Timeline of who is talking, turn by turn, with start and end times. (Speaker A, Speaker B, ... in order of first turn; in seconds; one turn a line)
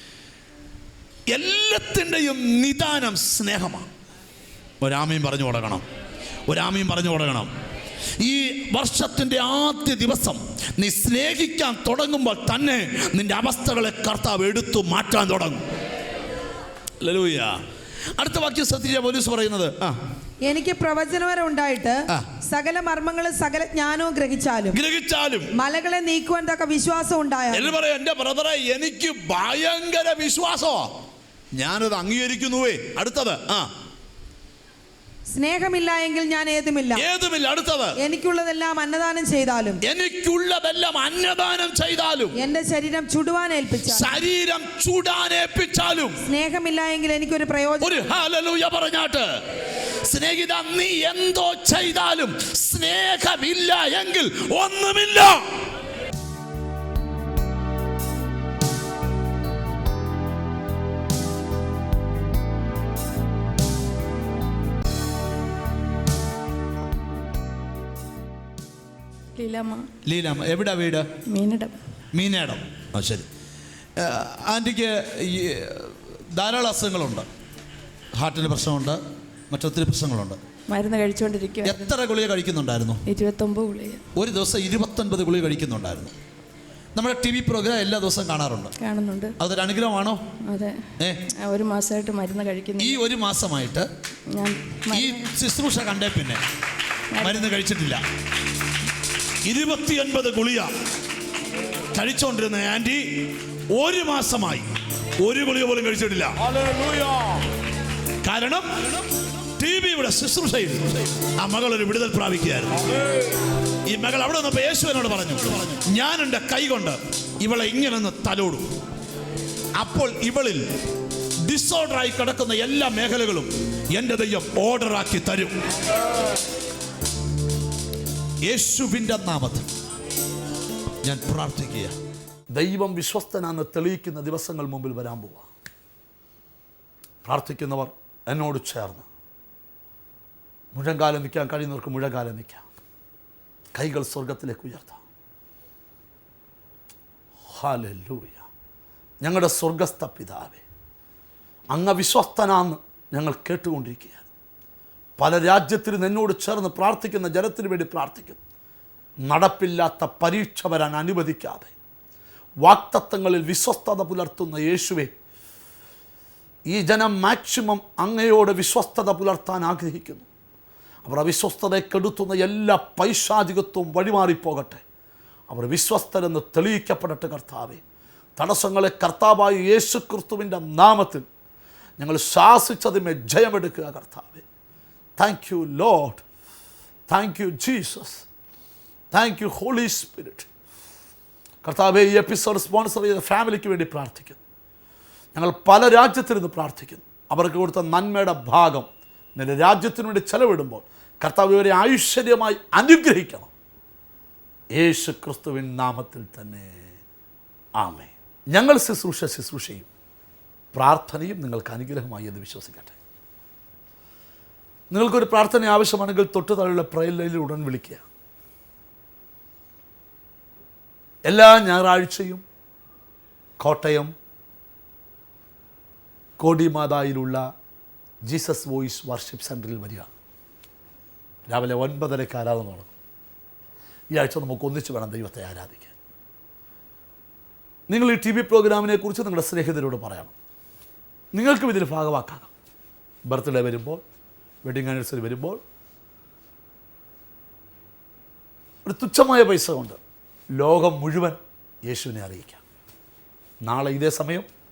Speaker A: 1.3-3.9
Speaker A: 4.8-5.8
Speaker A: 6.5-7.5
Speaker A: 8.2-15.6
Speaker A: 17.0-17.6
Speaker A: 18.2-20.0
Speaker B: 20.4-24.8
Speaker A: 24.7-25.5
Speaker B: 25.5-27.7
Speaker A: 27.5-30.9
Speaker A: 31.6-33.7
Speaker B: 35.3-37.1
Speaker A: 37.0-38.0
Speaker B: 38.0-39.8
Speaker A: 39.8-42.3
Speaker B: 42.4-44.1
Speaker A: 43.9-46.2
Speaker B: 46.2-48.1
Speaker A: 47.8-49.3
Speaker A: 50.0-55.4
Speaker C: 69.4-69.9
Speaker A: 70.0-71.1
Speaker C: 71.3-71.8
Speaker A: 72.1-73.3
Speaker A: 74.0-77.3
Speaker A: 78.2-80.4
Speaker C: 80.7-81.9
Speaker A: 81.7-83.0
Speaker C: 83.1-84.0
Speaker A: 84.2-86.1
Speaker A: 87.0-88.7
Speaker C: 88.8-89.4
Speaker A: 89.4-90.2
Speaker C: 90.5-93.0
Speaker A: 91.0-91.2
Speaker A: 92.8-93.9
Speaker C: 94.3-95.4
Speaker A: 94.9-96.4
Speaker C: 97.2-97.5
Speaker A: 97.2-98.0
Speaker A: 99.5-100.7
Speaker A: 101.9-104.7
Speaker A: 105.2-107.3
Speaker A: 108.2-108.7
Speaker A: 109.6-112.9
Speaker A: 113.9-118.7
Speaker A: 119.8-120.6
Speaker A: 121.4-125.6
Speaker A: 128.5-129.7
Speaker A: 131.0-132.0
Speaker A: 132.5-135.5
Speaker A: 137.2-139.1
Speaker A: 140.7-142.6
Speaker A: 143.8-145.0
Speaker A: 147.5-148.4
Speaker A: 149.2-150.6
Speaker A: 151.7-154.2
Speaker A: 155.2-158.4
Speaker A: 159.2-161.7
Speaker A: 162.6-165.1
Speaker A: 166.7-170.3
Speaker A: 171.1-174.8
Speaker A: 175.5-177.8
Speaker A: 178.4-181.3
Speaker A: 182.0-184.4
Speaker A: 185.2-186.2
Speaker A: 187.1-188.2
Speaker A: 189.1-190.5
Speaker A: 191.6-194.4
Speaker A: 195.3-203.5
Speaker A: 204.8-207.0
Speaker A: 207.8-209.9
Speaker A: 210.7-213.0
Speaker A: 214.9-218.1
Speaker A: 221.3-222.4
Speaker A: 223.6-224.1
Speaker A: 226.4-227.4
Speaker A: 228.3-230.1
Speaker A: 231.5-232.9
Speaker A: 234.1-235.9
Speaker A: 237.9-240.3
Speaker A: 241.3-242.5
Speaker A: 243.3-244.0
Speaker A: 244.6-245.6
Speaker A: 248.8-250.0
Speaker A: 250.6-252.6
Speaker A: 253.7-254.5